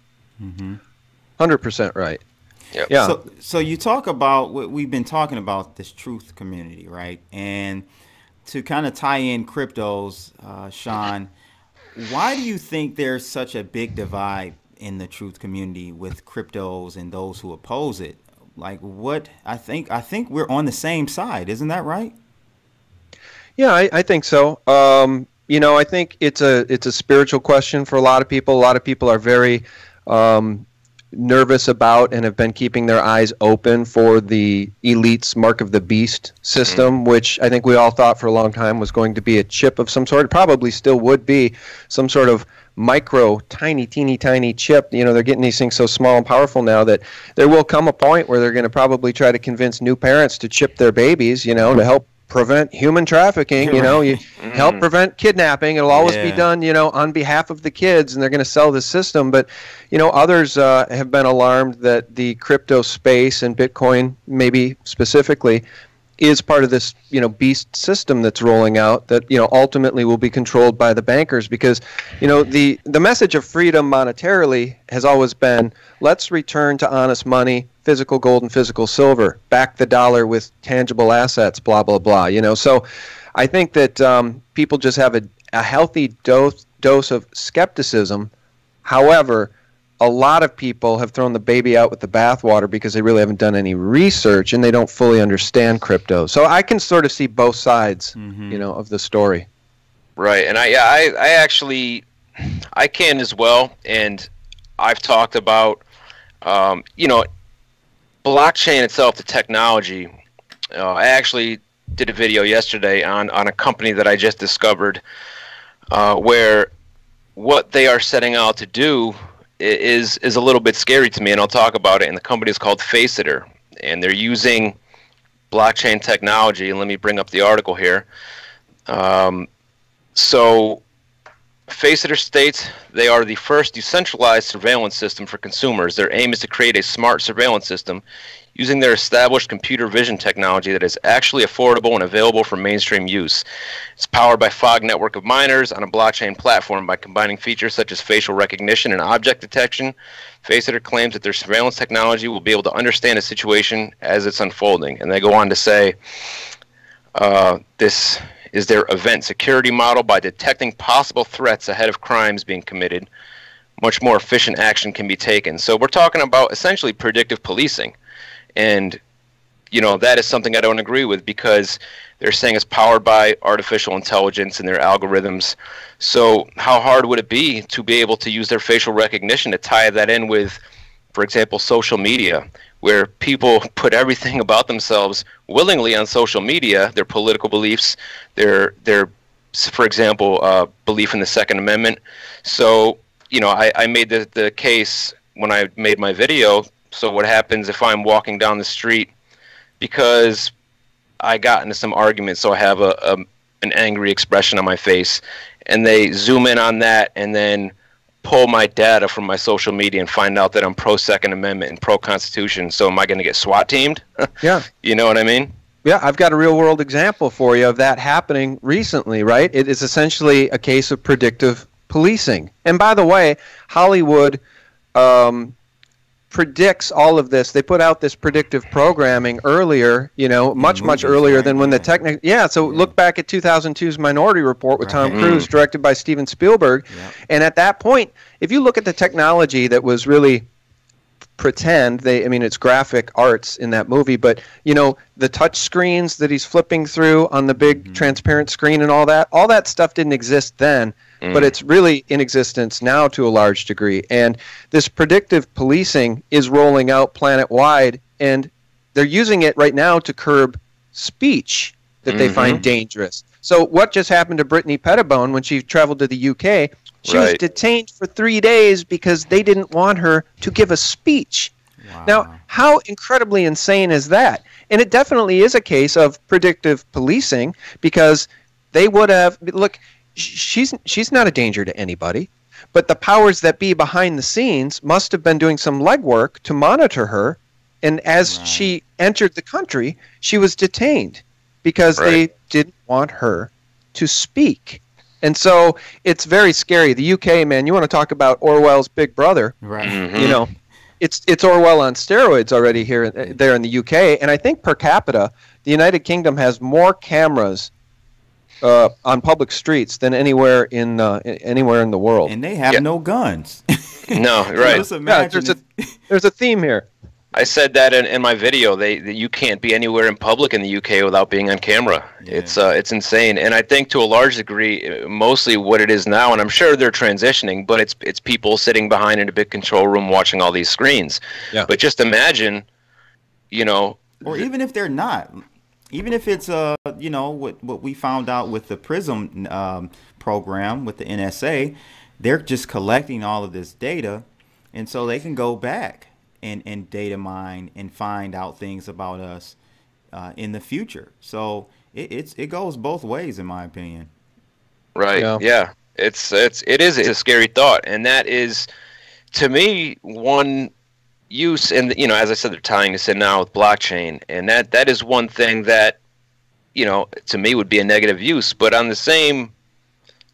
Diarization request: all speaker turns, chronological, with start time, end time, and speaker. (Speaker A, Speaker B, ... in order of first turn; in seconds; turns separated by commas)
Speaker A: 0.4-0.8, Speaker B: 1.4-2.2, Speaker B: 2.9-3.1, Speaker A: 2.9-7.8, Speaker A: 8.4-11.3, Speaker A: 11.9-22.1, Speaker B: 23.6-65.6, Speaker A: 53.6-54.2, Speaker C: 54.4-54.8, Speaker A: 55.9-56.5, Speaker B: 66.2-82.8, Speaker B: 83.3-88.3, Speaker B: 88.8-99.5, Speaker A: 98.2-98.6, Speaker C: 100.2-102.0, Speaker C: 102.7-105.8, Speaker C: 106.4-107.2, Speaker C: 108.2-110.1, Speaker C: 110.7-115.0, Speaker C: 115.9-116.7, Speaker C: 117.3-124.8, Speaker C: 125.5-128.1, Speaker C: 128.9-129.5, Speaker C: 130.2-130.8, Speaker C: 131.7-138.0, Speaker C: 138.5-143.4, Speaker C: 144.0-155.9, Speaker C: 157.2-163.1, Speaker C: 163.8-167.9, Speaker C: 168.6-169.0, Speaker C: 169.7-180.6, Speaker C: 181.1-199.1, Speaker C: 199.8-200.5, Speaker C: 201.2-215.5, Speaker B: 215.8-224.4, Speaker B: 224.9-225.5, Speaker B: 226.3-240.4, Speaker A: 230.6-231.9, Speaker A: 232.6-232.9, Speaker A: 234.8-235.4, Speaker C: 235.1-235.5, Speaker B: 241.4-271.5, Speaker A: 247.6-248.1, Speaker C: 251.2-251.5, Speaker C: 262.1-262.6, Speaker C: 267.1-267.4, Speaker A: 271.8-272.4, Speaker B: 272.0-299.6, Speaker A: 288.2-288.7, Speaker A: 299.6-300.0, Speaker C: 299.8-300.4, Speaker B: 300.1-307.7, Speaker B: 308.6-312.3, Speaker A: 312.2-315.9, Speaker C: 314.1-314.8, Speaker B: 314.6-315.6, Speaker B: 316.1-316.9, Speaker C: 317.3-332.6, Speaker A: 322.2-322.6, Speaker C: 333.5-334.4, Speaker A: 334.2-349.6, Speaker A: 350.1-354.1, Speaker C: 354.9-358.6, Speaker C: 359.3-360.7, Speaker C: 361.3-366.0, Speaker C: 366.7-369.5